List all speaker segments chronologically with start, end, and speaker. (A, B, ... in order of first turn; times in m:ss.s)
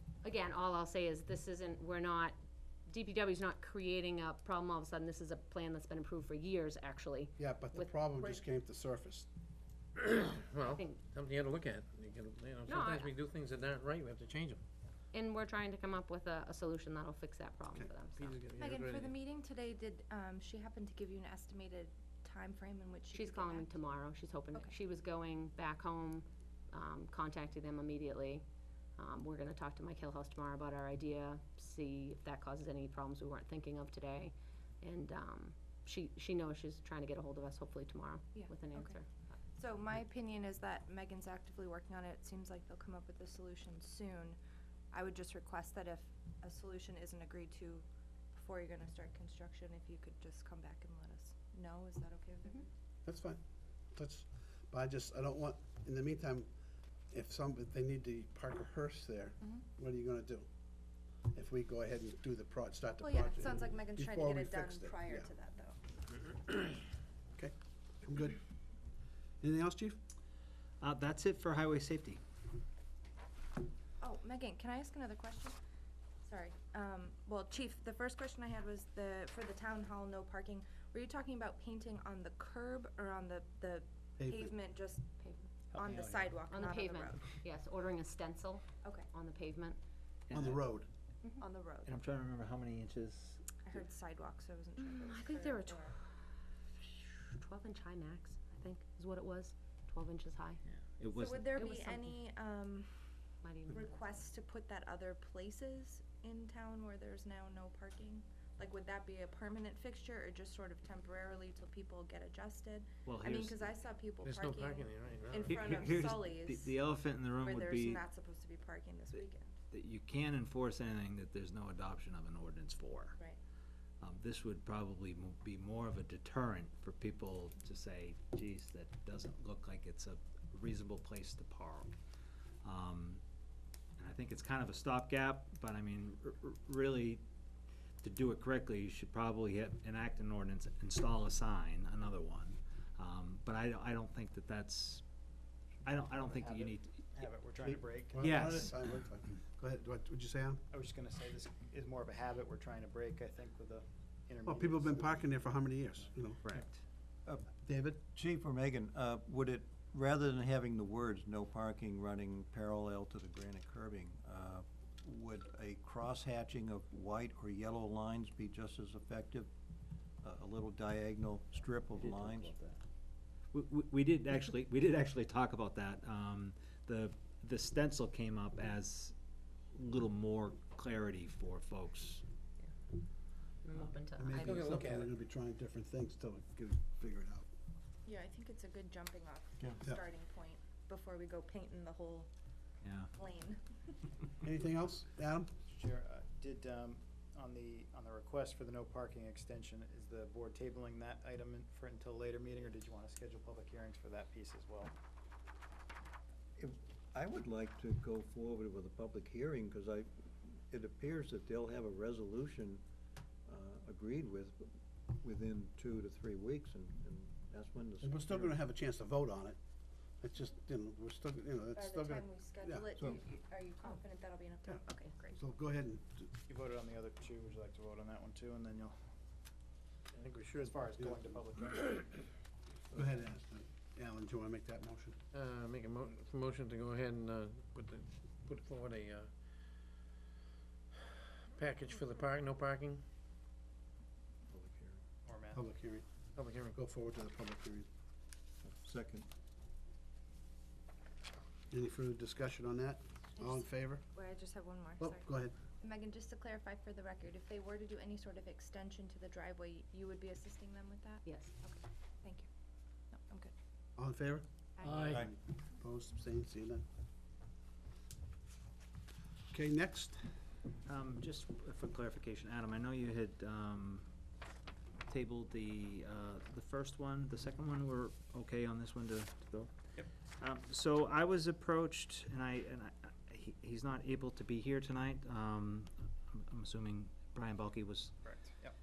0:00.2-0:02.4 A
0:02.9-0:08.4 A
0:07.4-0:09.3 B
0:10.0-0:14.6 C
0:10.6-0:11.1 A
0:12.6-0:13.2 A
0:15.1-0:18.3 A
0:18.2-0:19.2 C
0:18.6-0:24.0 D
0:23.1-0:28.4 A
0:29.0-0:39.0 A
0:38.3-0:39.0 D
0:39.6-0:44.4 D
0:44.9-0:52.6 D
0:53.0-0:53.4 B
0:53.9-0:56.5 B
0:57.1-1:00.5 B
1:01.3-1:05.3 B
1:03.0-1:05.8 D
1:07.3-1:08.4 B
1:09.4-1:10.0 B
1:10.8-1:12.2 E
1:14.0-1:15.6 D
1:16.2-1:25.2 D
1:24.2-1:24.5 B
1:25.2-1:25.6 A
1:25.7-1:27.4 D
1:26.4-1:29.8 A
1:28.8-1:29.1 D
1:30.3-1:30.6 E
1:30.3-1:30.9 B
1:31.4-1:32.0 D
1:31.8-1:33.6 E
1:33.6-1:35.9 D
1:34.8-1:36.0 A
1:36.8-1:40.6 A
1:40.7-1:41.5 E
1:41.1-1:42.9 D
1:41.5-1:42.2 A
1:43.4-1:44.2 A
1:43.7-1:56.8 D
1:53.0-1:53.7 E
1:54.2-1:55.8 C
1:55.4-1:58.0 E
1:57.4-1:59.5 D
1:59.7-2:03.2 E
2:04.0-2:11.9 E
2:12.6-2:13.2 E
2:14.0-2:17.2 E
2:18.0-2:25.0 E
2:25.8-2:27.2 E
2:26.1-2:28.7 F
2:28.1-2:30.6 B
2:28.2-2:29.0 E
2:30.7-2:36.1 F
2:34.4-2:36.4 B
2:36.4-2:36.8 E
2:37.6-2:38.0 B
2:38.1-2:49.5 G
2:50.2-2:52.5 G
2:51.9-2:52.8 E
2:53.5-2:59.1 E
2:59.7-3:02.2 E
3:03.6-3:04.5 A
3:04.2-3:07.4 B
3:04.4-3:05.1 C
3:08.0-3:12.3 D
3:12.8-3:13.1 E
3:13.1-3:13.6 D
3:14.4-3:15.5 B
3:15.6-3:24.9 F
3:26.6-3:32.8 G
3:33.5-3:34.7 G
3:35.2-3:38.6 G
3:38.0-3:39.6 B
3:40.2-3:42.9 B
3:41.7-3:45.4 D
3:45.3-3:46.3 B
3:46.5-3:49.0 F
3:50.1-3:50.8 C
3:50.6-3:52.2 F
3:52.9-3:55.2 B
3:55.3-3:59.3 C
4:01.5-4:03.0 C
4:04.5-4:05.0 G
4:05.2-4:05.6 F
4:05.5-4:06.0 B
4:06.3-4:06.8 C
4:06.7-4:07.9 B
4:08.6-4:09.2 G
4:11.7-4:14.0 B
4:13.4-4:15.3 D
4:15.0-4:15.5 B
4:15.8-4:22.5 D
4:21.2-4:21.5 A
4:23.1-4:23.5 D
4:24.0-4:26.8 B
4:24.8-4:25.2 D
4:24.8-4:25.2 C
4:29.5-4:30.3 B
4:30.8-4:34.1 E
4:35.1-4:39.7 E
4:40.4-4:48.1 E
4:48.2-4:48.7 F